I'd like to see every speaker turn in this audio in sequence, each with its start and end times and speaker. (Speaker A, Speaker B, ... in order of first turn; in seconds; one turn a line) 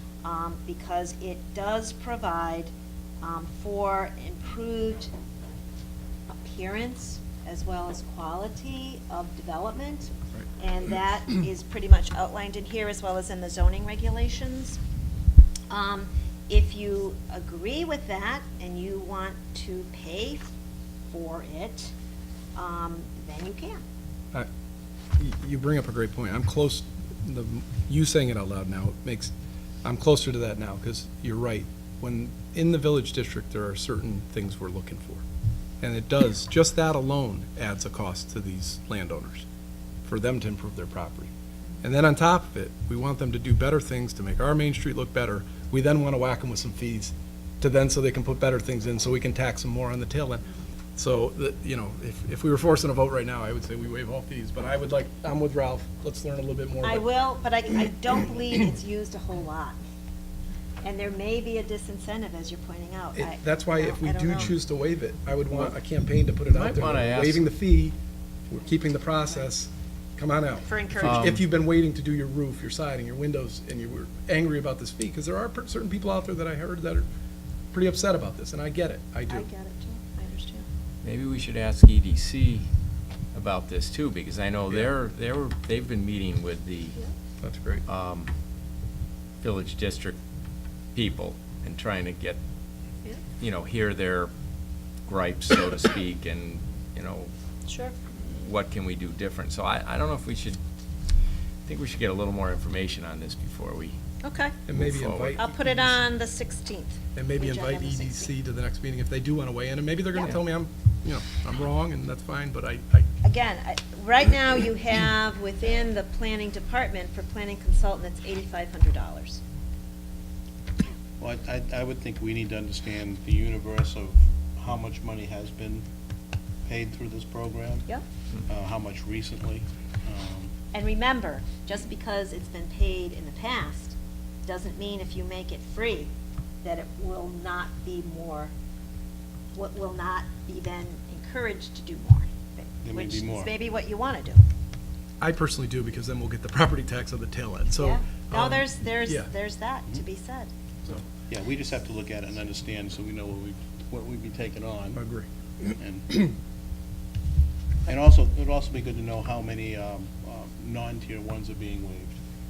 Speaker A: 0.2-5.1
Speaker A: 6.3-14.8
Speaker A: 15.7-20.5
Speaker A: 21.1-21.9
Speaker A: 22.6-23.8
Speaker B: 25.2-29.3
Speaker B: 29.8-35.2
Speaker B: 35.8-39.5
Speaker B: 40.0-41.3
Speaker B: 41.8-50.4
Speaker B: 51.0-57.0
Speaker A: 56.8-59.8
Speaker A: 60.8-64.5
Speaker B: 63.1-68.0
Speaker C: 66.5-67.5
Speaker B: 68.5-77.1
Speaker A: 70.7-71.4
Speaker C: 71.0-71.4
Speaker B: 77.7-79.5
Speaker A: 79.3-80.7
Speaker C: 81.0-82.7
Speaker C: 83.3-87.0
Speaker B: 87.4-87.8
Speaker C: 87.8-88.3
Speaker C: 89.4-90.2
Speaker C: 90.9-92.4
Speaker C: 93.4-94.3
Speaker C: 95.0-97.3
Speaker A: 97.7-97.9
Speaker C: 98.2-100.6
Speaker C: 101.7-104.0
Speaker A: 104.2-104.5
Speaker B: 104.7-106.0
Speaker C: 104.7-105.4
Speaker A: 105.4-108.3
Speaker B: 107.2-113.1
Speaker A: 113.2-119.4
Speaker D: 121.2-125.8
Speaker D: 126.6-127.9
Speaker D: 128.5-130.5
Speaker A: 130.7-136.1
Speaker A: 136.6-138.5
Speaker A: 139.5-144.4
Speaker D: 142.8-143.5
Speaker B: 145.2-149.3
Speaker A: 147.8-150.5
Speaker D: 151.3-155.0
Speaker B: 154.9-156.3
Speaker D: 155.8-156.1
Speaker D: 157.8-162.1